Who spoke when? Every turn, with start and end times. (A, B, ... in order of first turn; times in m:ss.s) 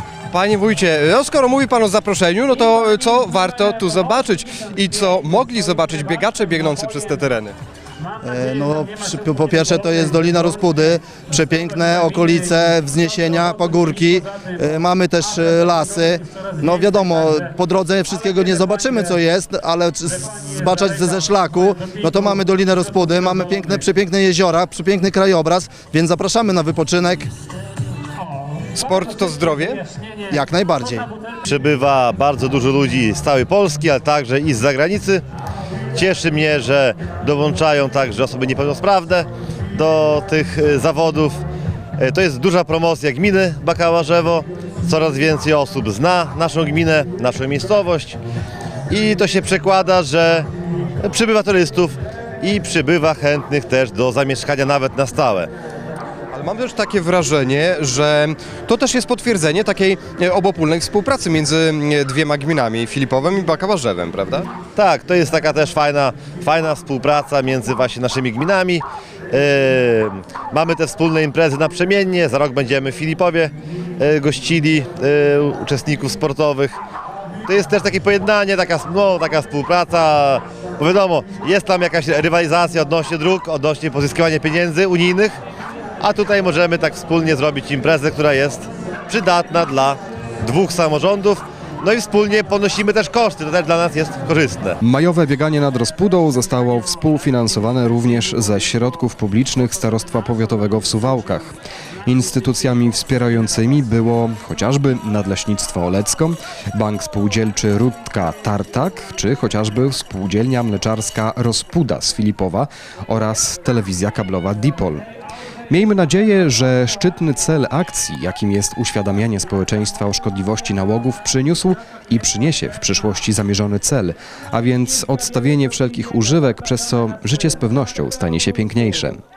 0:00.3-0:07.6 A
0:08.2-0:27.3 B
0:28.7-0:29.8 A
0:30.3-0:31.1 B
0:31.5-0:35.2 C
0:36.0-0:41.4 C
0:42.0-0:48.2 C
0:48.9-0:50.5 C
0:51.0-0:55.5 C
0:56.3-1:04.5 A
1:04.8-1:08.8 C
1:09.3-1:16.8 C
1:17.5-1:25.4 C
1:26.0-1:34.8 C
1:34.8-1:41.5 D
1:42.1-1:55.0 D
1:55.7-2:09.2 D